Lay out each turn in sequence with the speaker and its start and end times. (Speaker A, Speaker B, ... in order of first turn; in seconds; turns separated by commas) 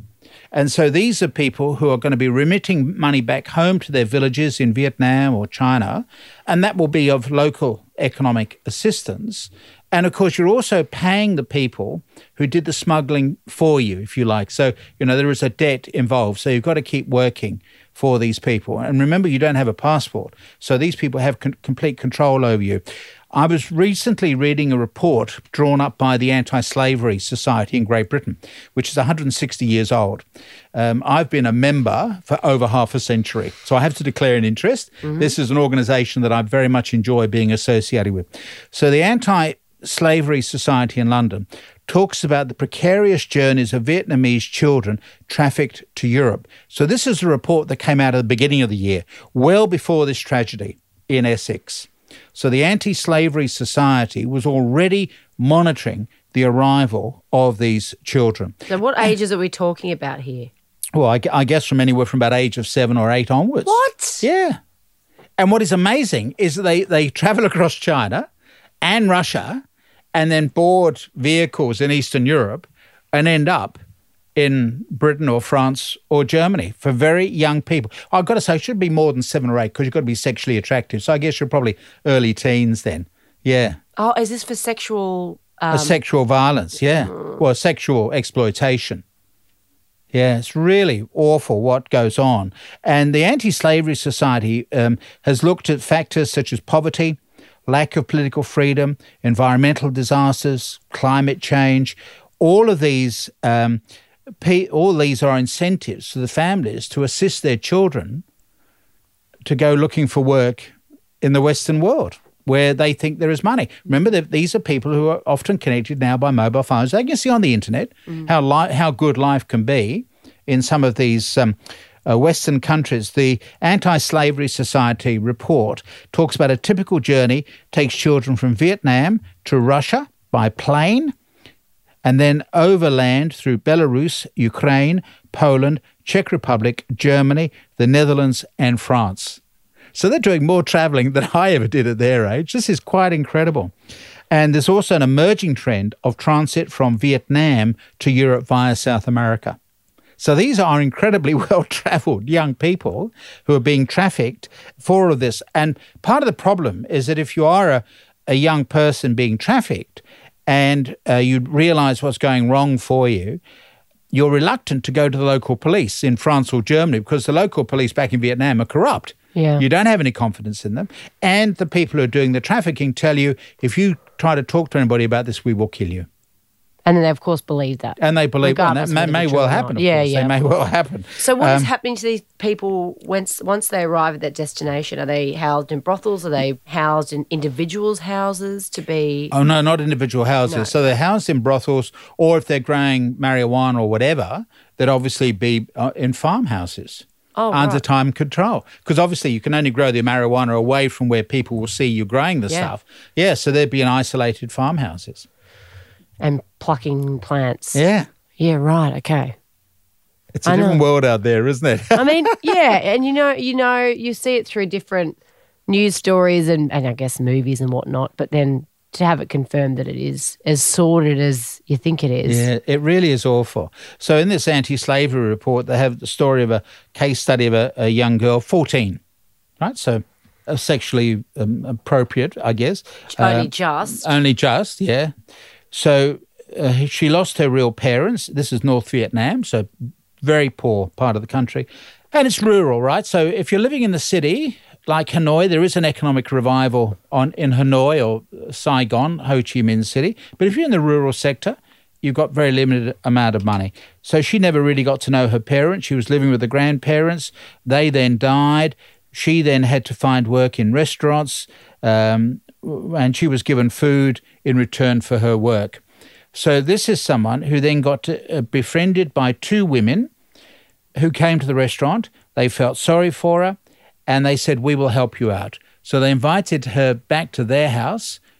Speaker A: 0.5-59.1, Speaker B: 58.7-60.5, Speaker A: 61.0-64.6, Speaker B: 63.7-64.2, Speaker A: 65.4-68.3, Speaker A: 68.8-69.6, Speaker A: 70.1-73.8, Speaker A: 74.4-83.8, Speaker B: 84.0-86.0, Speaker A: 85.7-89.0, Speaker A: 90.1-103.8, Speaker A: 104.4-108.2, Speaker A: 109.5-131.1, Speaker A: 132.0-139.4, Speaker A: 139.9-143.7, Speaker A: 144.3-149.6, Speaker A: 150.2-163.4, Speaker A: 164.1-176.1, Speaker B: 169.3-169.6, Speaker B: 176.8-189.3, Speaker A: 178.0-181.7, Speaker A: 189.3-205.3, Speaker B: 190.4-190.8, Speaker B: 197.4-197.8, Speaker B: 206.2-207.8, Speaker A: 207.8-208.1, Speaker B: 208.4-209.3, Speaker A: 210.3-212.5, Speaker B: 210.5-210.9, Speaker B: 211.9-222.5, Speaker A: 222.3-229.0, Speaker A: 229.6-235.1, Speaker B: 233.2-234.2, Speaker A: 235.7-239.7, Speaker A: 240.2-265.8, Speaker A: 266.3-270.1, Speaker A: 271.0-278.2